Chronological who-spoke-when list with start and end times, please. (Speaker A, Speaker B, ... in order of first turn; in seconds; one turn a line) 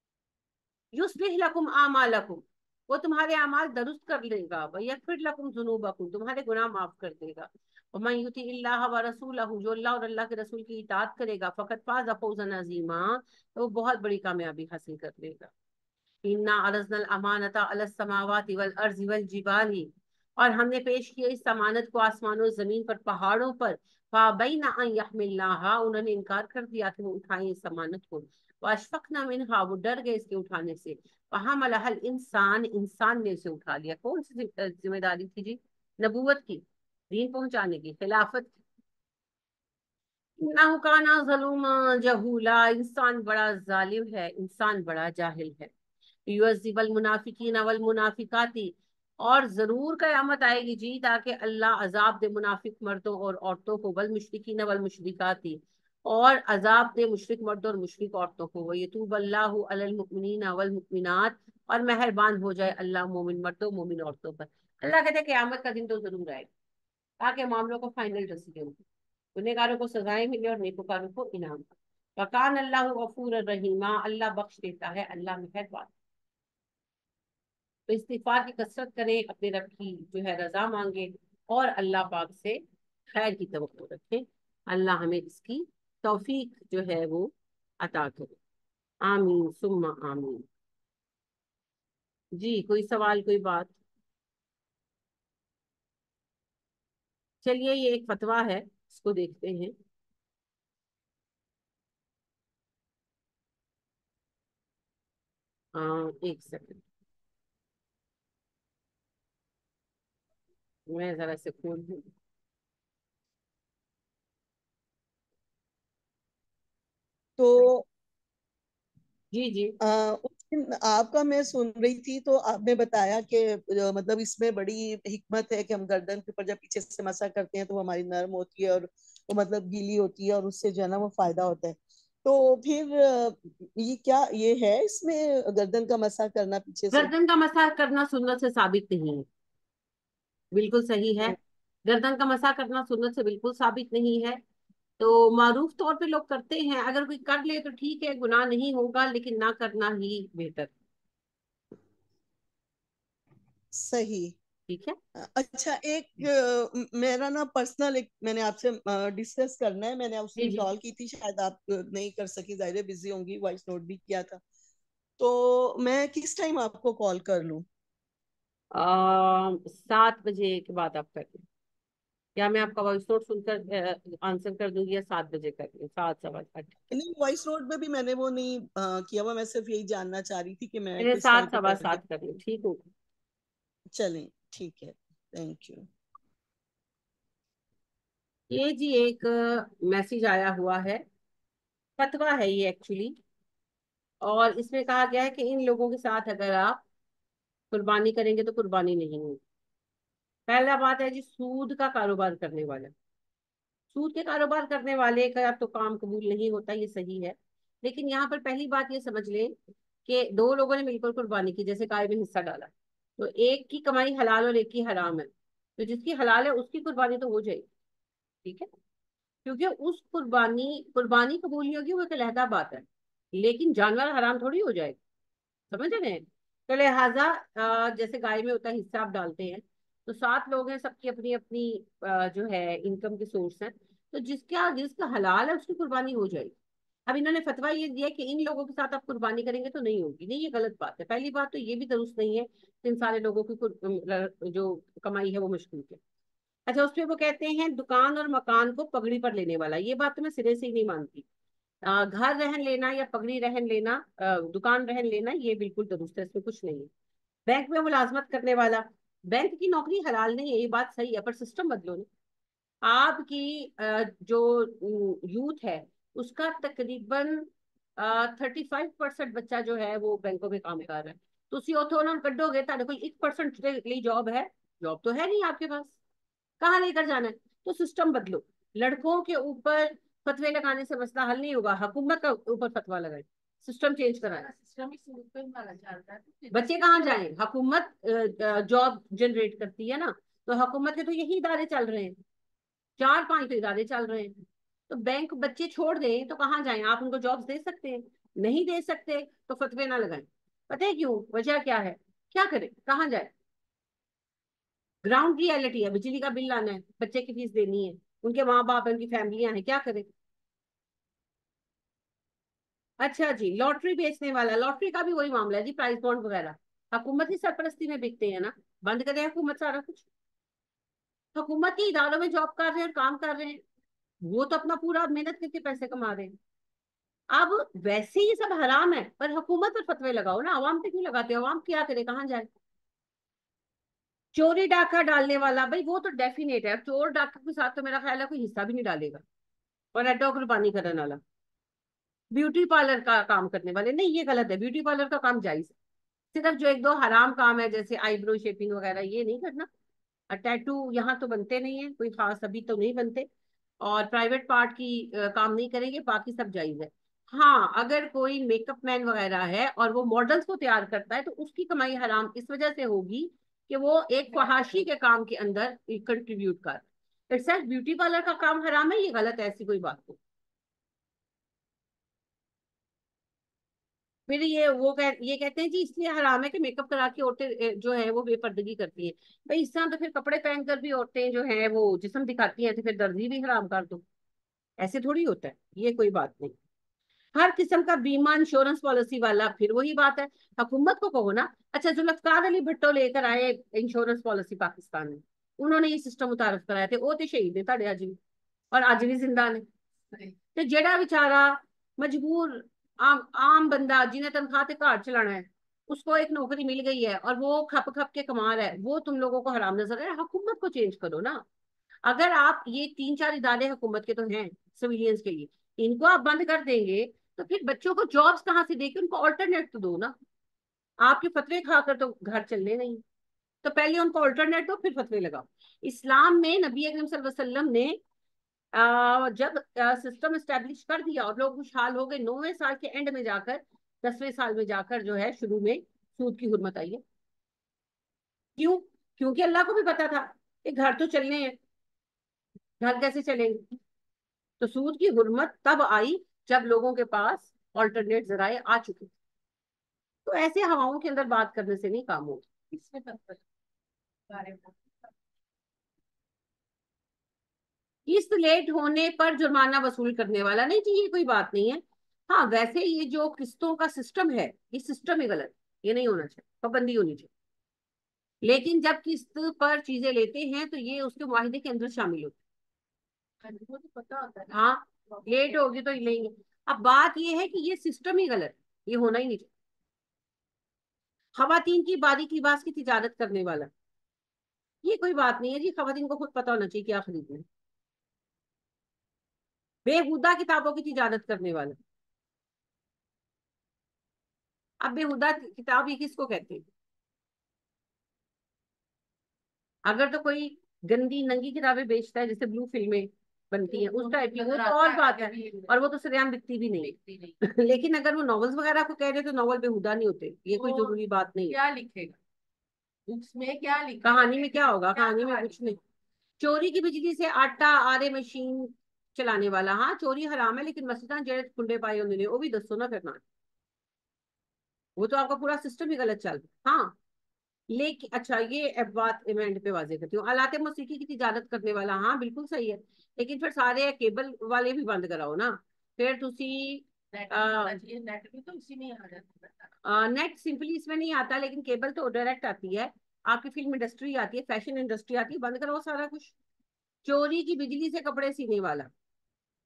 Speaker A: 0.9-15.5
Speaker A: 16.2-38.6
Speaker A: 40.4-45.7
Speaker A: 46.3-66.5
Speaker A: 67.2-68.8
Speaker A: 69.3-75.9
Speaker A: 77.9-88.4
Speaker A: 89.0-90.5
Speaker A: 92.3-93.8
Speaker A: 97.4-99.8
Speaker A: 105.7-106.8
Speaker A: 110.9-112.1
Speaker B: 117.4-117.9
Speaker A: 119.3-119.8
Speaker B: 119.8-137.1
Speaker A: 136.9-139.3
Speaker A: 140.5-144.4
Speaker A: 145.0-150.7
Speaker B: 153.7-154.3
Speaker A: 154.7-155.0
Speaker B: 155.2-164.4
Speaker A: 160.4-160.7
Speaker B: 165.2-167.7
Speaker A: 168.7-171.4
Speaker A: 172.4-176.8
Speaker B: 176.9-182.0
Speaker A: 181.0-182.8
Speaker B: 183.9-185.9
Speaker A: 188.5-191.0
Speaker A: 192.0-193.2
Speaker A: 194.2-196.8
Speaker A: 197.7-199.4
Speaker A: 200.5-202.9
Speaker A: 203.9-217.7
Speaker A: 219.4-225.0
Speaker A: 225.7-236.5
Speaker A: 237.1-246.0
Speaker A: 246.7-251.3
Speaker A: 251.8-256.9
Speaker A: 257.5-262.1
Speaker A: 262.8-276.0
Speaker A: 276.6-284.5
Speaker C: 284.2-287.2
Speaker A: 286.5-292.2
Speaker A: 293.0-294.4
Speaker A: 294.9-303.3
Speaker A: 305.0-310.1
Speaker A: 313.0-320.1
Speaker A: 321.4-323.6
Speaker A: 324.2-326.4
Speaker A: 327.3-332.5
Speaker A: 334.3-339.2
Speaker A: 339.9-341.2
Speaker A: 342.3-345.8
Speaker A: 346.3-349.7
Speaker A: 350.3-353.3
Speaker A: 353.8-370.2
Speaker A: 374.3-384.0
Speaker A: 384.8-386.6
Speaker A: 387.4-398.2
Speaker A: 398.7-399.6
Speaker A: 400.6-411.4
Speaker A: 412.1-420.1
Speaker A: 421.0-423.0
Speaker A: 423.6-428.0
Speaker A: 428.7-437.0
Speaker A: 438.6-441.6
Speaker A: 442.8-443.7
Speaker A: 444.6-449.1
Speaker A: 450.2-452.5
Speaker C: 452.7-453.4
Speaker C: 454.3-455.1
Speaker A: 458.1-467.3
Speaker A: 468.4-472.4
Speaker C: 473.4-475.7
Speaker A: 474.5-479.5
Speaker A: 481.4-483.7
Speaker A: 484.8-487.5
Speaker A: 489.9-491.8
Speaker A: 494.8-496.7
Speaker A: 499.9-511.6
Speaker C: 503.7-505.8
Speaker C: 506.8-507.4
Speaker C: 510.6-512.2
Speaker C: 513.1-515.8
Speaker A: 514.0-515.8
Speaker A: 516.4-523.2
Speaker A: 525.0-527.0
Speaker A: 527.7-537.8
Speaker C: 537.1-539.7
Speaker A: 539.9-546.3
Speaker A: 547.0-548.9